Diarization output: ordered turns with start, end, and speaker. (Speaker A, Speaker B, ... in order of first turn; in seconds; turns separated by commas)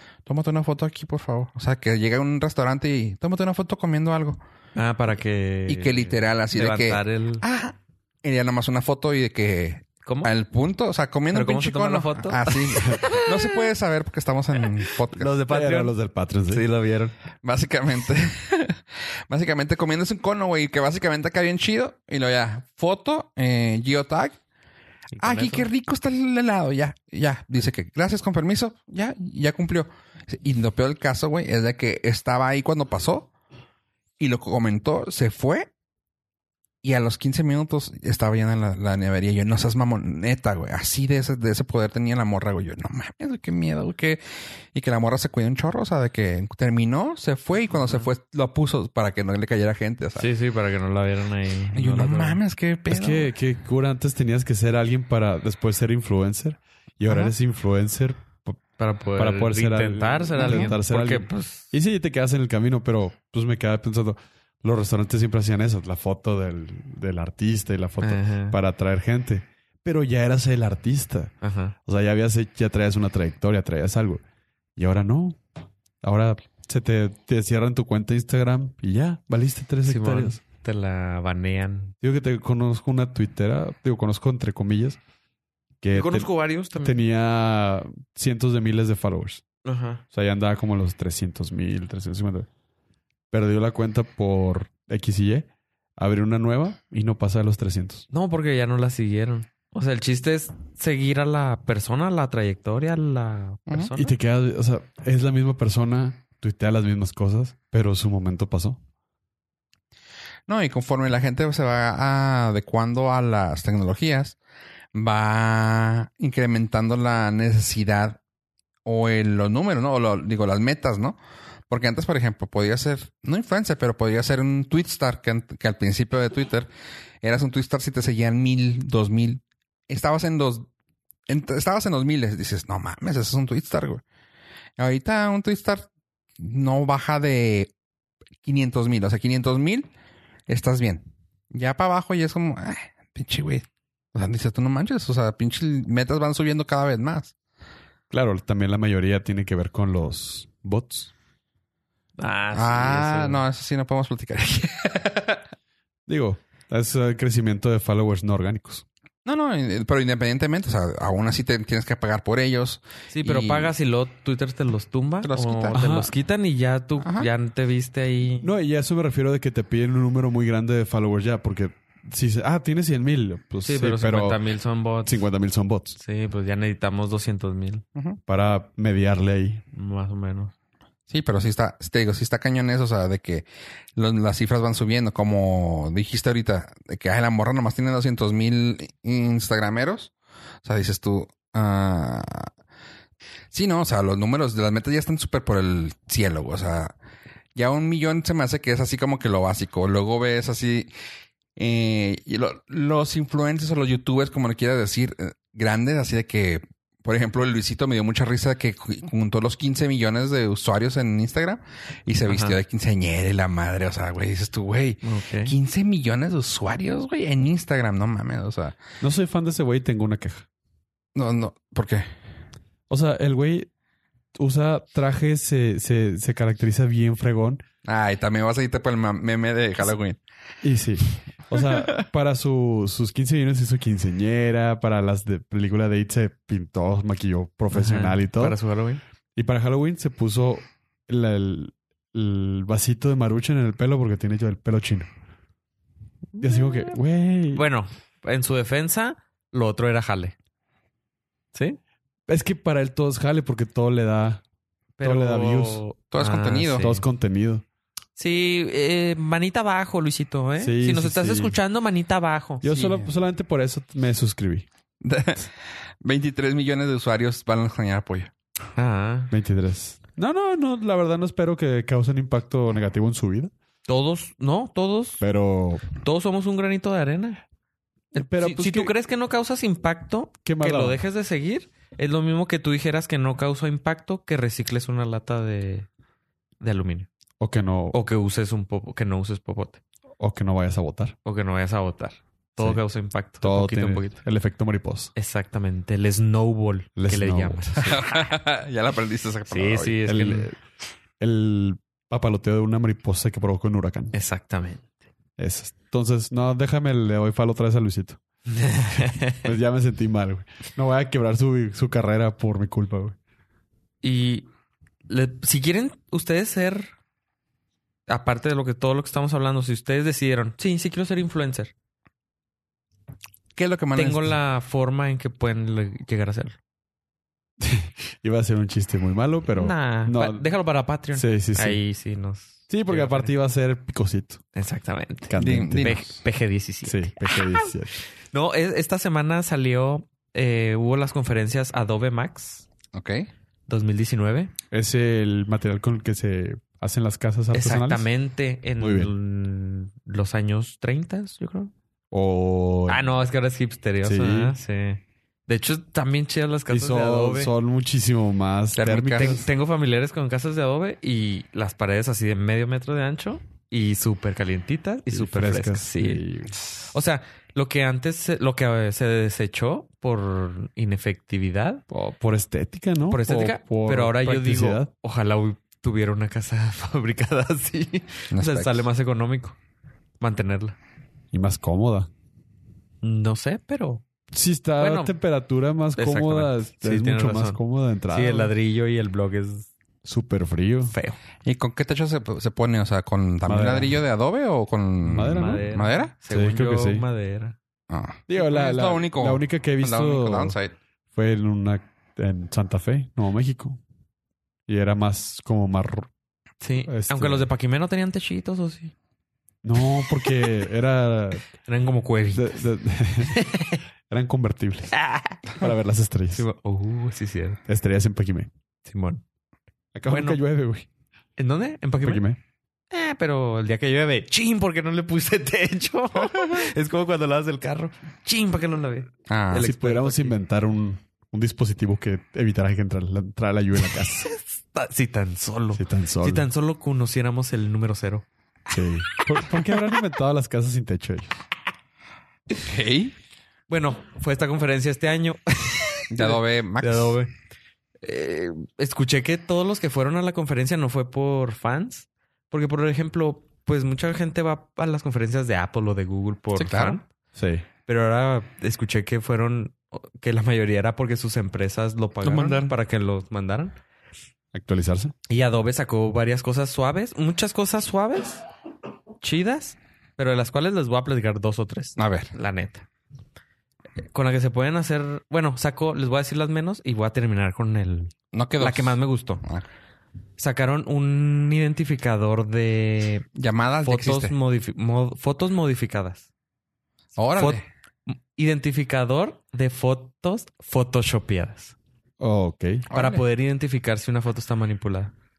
Speaker A: 0.2-4.4, Speaker B: 4.7-7.4, Speaker A: 5.7-15.3, Speaker B: 10.0-10.3, Speaker B: 11.3-13.6, Speaker B: 14.8-15.9, Speaker C: 15.5-16.6, Speaker B: 16.5-17.1, Speaker A: 17.4-24.4, Speaker B: 25.1-25.7, Speaker A: 25.2-33.3, Speaker A: 34.2-35.7, Speaker A: 36.8-44.2, Speaker A: 44.7-50.3, Speaker B: 50.2-52.4, Speaker A: 51.7-53.3, Speaker C: 52.9-58.6, Speaker A: 57.1-57.3, Speaker B: 58.8-61.7, Speaker C: 59.1-71.3, Speaker A: 60.4-60.7, Speaker B: 68.0-68.6, Speaker B: 71.4-71.7, Speaker C: 71.8-74.2, Speaker C: 74.8-75.4, Speaker C: 76.0-80.4, Speaker B: 79.8-81.9, Speaker C: 82.0-85.0, Speaker C: 85.8-89.4, Speaker B: 85.9-87.0, Speaker B: 89.6-90.0, Speaker C: 90.1-92.5, Speaker C: 93.3-98.1, Speaker B: 98.1-104.2, Speaker C: 104.0-108.8, Speaker A: 110.5-114.4, Speaker A: 114.9-118.2, Speaker A: 118.8-121.2, Speaker A: 121.7-126.7, Speaker A: 127.2-130.7, Speaker A: 131.3-134.0, Speaker A: 134.8-135.9, Speaker A: 136.4-137.7, Speaker A: 138.4-139.9, Speaker A: 140.5-147.3, Speaker C: 148.1-151.1, Speaker B: 152.2-153.4, Speaker A: 152.5-155.4, Speaker C: 156.1-158.8, Speaker A: 159.2-163.7, Speaker B: 163.1-168.5, Speaker A: 165.2-165.8, Speaker C: 165.7-166.1, Speaker A: 167.0-167.3, Speaker C: 168.4-174.4, Speaker B: 173.6-175.2, Speaker C: 175.0-176.0, Speaker B: 176.0-177.8, Speaker A: 177.9-178.2, Speaker C: 178.3-179.6, Speaker B: 179.7-180.5, Speaker A: 181.1-190.1, Speaker A: 190.6-192.5, Speaker A: 193.5-196.9, Speaker A: 197.5-200.9, Speaker A: 201.6-218.8, Speaker B: 212.2-212.6, Speaker B: 215.0-215.5, Speaker C: 219.0-220.4, Speaker A: 221.1-222.1, Speaker C: 222.9-223.7, Speaker C: 224.3-227.6, Speaker A: 227.8-230.2, Speaker C: 230.6-238.6, Speaker A: 231.5-232.1, Speaker B: 237.7-239.0, Speaker C: 239.3-245.1, Speaker C: 246.4-247.6, Speaker B: 246.4-246.8, Speaker B: 247.5-250.3, Speaker B: 251.5-251.8, Speaker C: 252.3-254.4, Speaker B: 255.0-257.0, Speaker C: 255.0-255.8, Speaker A: 256.1-256.9, Speaker C: 256.8-257.6, Speaker B: 258.1-262.7, Speaker C: 260.6-261.6, Speaker C: 262.6-264.6, Speaker A: 262.7-263.1, Speaker A: 265.0-265.5, Speaker A: 266.0-268.3, Speaker B: 268.8-269.3, Speaker C: 269.3-273.5, Speaker B: 273.9-275.2, Speaker C: 275.2-275.8, Speaker B: 275.9-277.4, Speaker C: 278.1-278.9, Speaker B: 278.1-285.9, Speaker C: 280.4-281.0, Speaker B: 286.6-287.1, Speaker C: 287.4-288.0, Speaker B: 287.9-289.8, Speaker C: 290.2-291.1, Speaker B: 291.2-294.2, Speaker C: 293.4-295.1, Speaker B: 295.1-298.3, Speaker C: 296.9-297.9, Speaker A: 297.8-300.0, Speaker B: 299.5-300.5, Speaker C: 300.1-300.6, Speaker C: 301.2-304.1, Speaker B: 304.1-304.8, Speaker C: 305.4-308.2, Speaker B: 308.5-309.5, Speaker C: 308.9-313.2, Speaker B: 314.0-314.5, Speaker B: 315.1-316.9, Speaker B: 318.1-321.7, Speaker A: 323.6-324.4, Speaker B: 323.9-326.6, Speaker C: 327.6-330.5, Speaker B: 329.5-333.3, Speaker C: 331.1-331.8, Speaker C: 332.7-334.4, Speaker B: 334.5-337.7, Speaker C: 335.3-336.2, Speaker A: 335.4-336.0, Speaker C: 336.8-338.0, Speaker B: 338.3-342.6, Speaker A: 342.9-343.3, Speaker B: 343.7-344.5, Speaker C: 344.7-348.1, Speaker B: 347.5-351.7, Speaker C: 348.8-349.1, Speaker C: 352.1-353.2, Speaker B: 352.9-357.5, Speaker C: 354.0-354.6, Speaker C: 356.7-359.5, Speaker A: 358.7-359.4, Speaker B: 359.1-366.2, Speaker C: 365.1-366.5, Speaker B: 366.8-371.8, Speaker C: 371.9-374.9, Speaker B: 373.1-379.6, Speaker A: 378.3-378.9, Speaker B: 380.2-380.8, Speaker C: 381.3-382.1, Speaker B: 383.0-384.0, Speaker C: 384.3-388.5, Speaker B: 384.8-385.1, Speaker B: 385.9-389.7, Speaker C: 390.0-390.9, Speaker B: 390.9-391.2, Speaker A: 391.4-396.1, Speaker C: 393.4-394.0, Speaker C: 395.0-395.7, Speaker B: 395.3-397.6, Speaker C: 396.3-397.0, Speaker A: 397.9-400.7, Speaker C: 398.3-400.6, Speaker C: 401.1-403.8, Speaker C: 404.7-406.1, Speaker B: 406.6-408.9, Speaker C: 406.9-407.5, Speaker C: 409.6-411.5, Speaker B: 410.1-410.6, Speaker B: 411.6-412.6, Speaker C: 412.3-413.4, Speaker B: 413.2-413.8, Speaker C: 414.1-414.9, Speaker B: 414.9-415.6, Speaker C: 415.6-416.4, Speaker B: 416.3-417.6, Speaker C: 417.7-418.5, Speaker B: 418.8-419.2, Speaker C: 419.9-420.9, Speaker B: 420.1-420.4, Speaker B: 421.4-422.2, Speaker C: 422.0-422.4, Speaker B: 422.9-430.4, Speaker A: 429.3-429.7, Speaker C: 429.6-434.3, Speaker B: 433.8-438.2, Speaker C: 435.7-436.5, Speaker C: 438.7-441.4, Speaker B: 439.2-439.7, Speaker A: 442.6-443.1, Speaker B: 443.7-447.3, Speaker A: 446.1-447.2, Speaker B: 448.0-457.1, Speaker A: 456.5-457.0, Speaker C: 457.3-457.6, Speaker B: 457.9-463.8, Speaker A: 462.2-462.7, Speaker C: 464.5-465.1, Speaker B: 465.3-468.4, Speaker B: 469.2-472.9, Speaker A: 472.0-472.3, Speaker B: 474.1-479.4, Speaker A: 478.3-479.6, Speaker B: 480.4-483.2, Speaker A: 483.4-484.3, Speaker B: 483.8-486.3, Speaker A: 487.2-487.6, Speaker B: 487.4-491.7, Speaker C: 492.2-492.9, Speaker A: 492.9-493.2, Speaker B: 492.9-495.1